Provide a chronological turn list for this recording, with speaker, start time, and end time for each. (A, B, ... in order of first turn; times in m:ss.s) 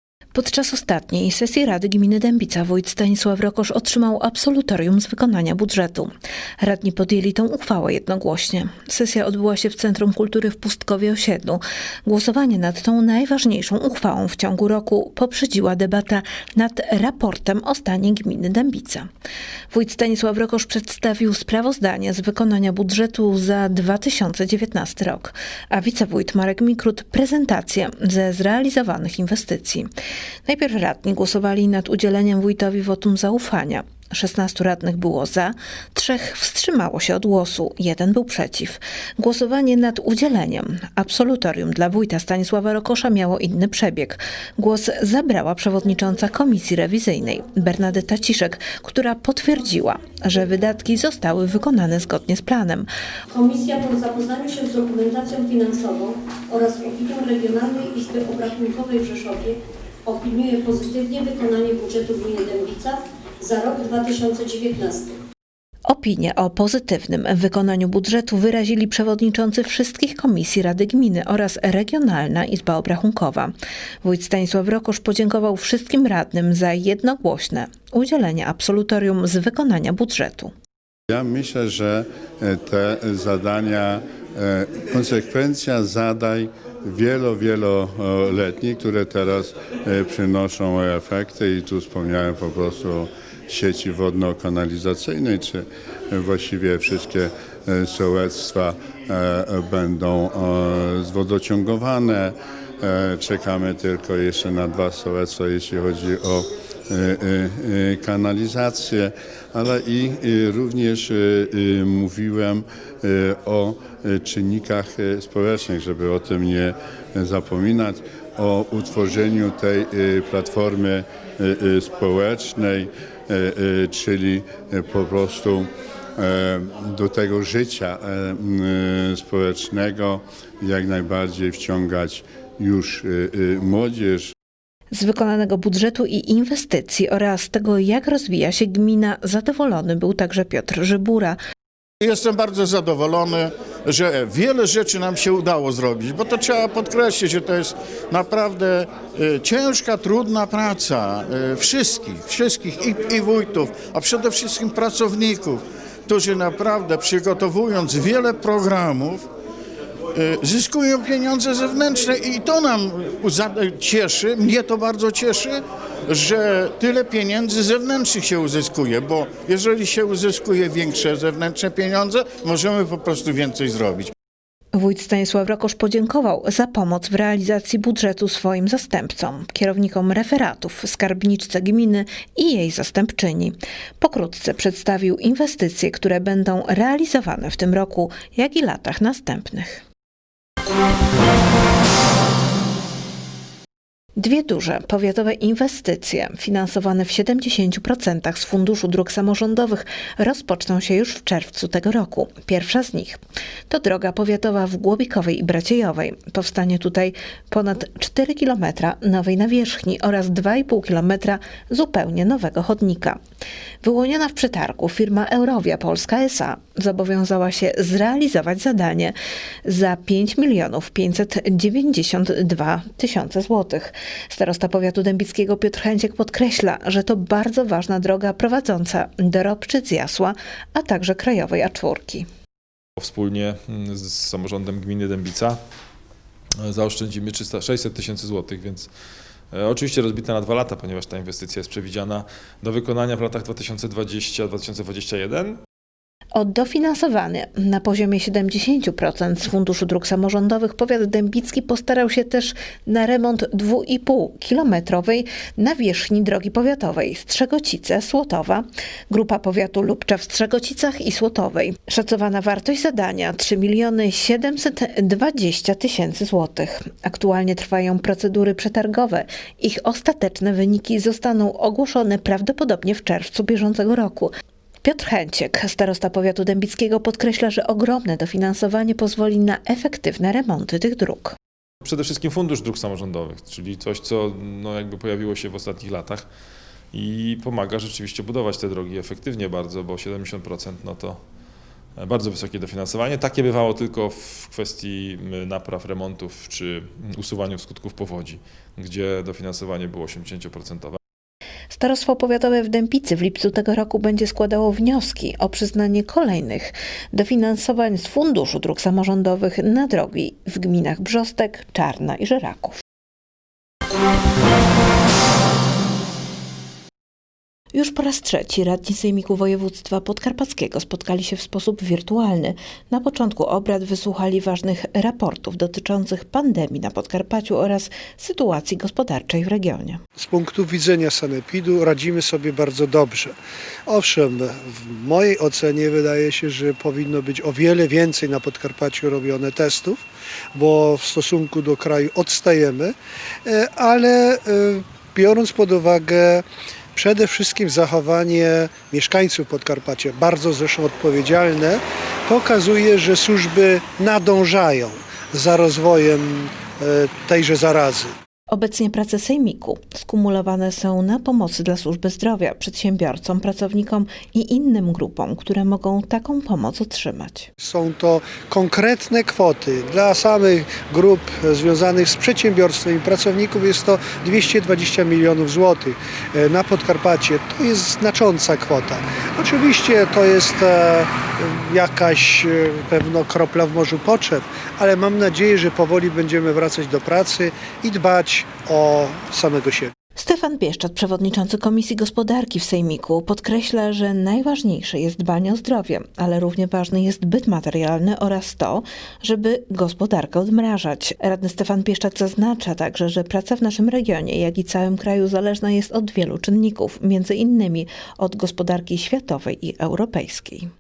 0:00.3-0:19.1 A
0:19.7-0:29.9 A
0:30.4-0:52.9 A
0:53.3-0:59.5 B
1:00.1-1:05.1 B
1:05.9-1:20.5 A
1:21.1-2:14.3 C
2:14.9-2:21.4 A
2:22.0-2:39.2 D
2:40.1-2:54.1 D
2:54.7-3:09.8 A
3:14.2-3:33.2 A
3:33.8-3:39.1 A
3:39.6-3:52.2 A
3:53.0-3:55.6 E
3:56.6-3:58.9 E
3:59.5-4:05.6 E
4:06.3-4:34.3 A
4:34.8-4:41.3 A
4:41.8-4:46.2 E
4:46.9-4:51.2 E
4:52.0-5:01.0 E
5:01.7-5:12.8 A
5:17.7-5:30.0 A
5:30.2-5:33.3 F
5:33.9-5:40.0 F
5:40.5-5:46.4 F
5:46.9-5:58.1 F
5:58.5-6:07.5 A
6:07.6-6:29.9 F
6:30.2-6:50.7 A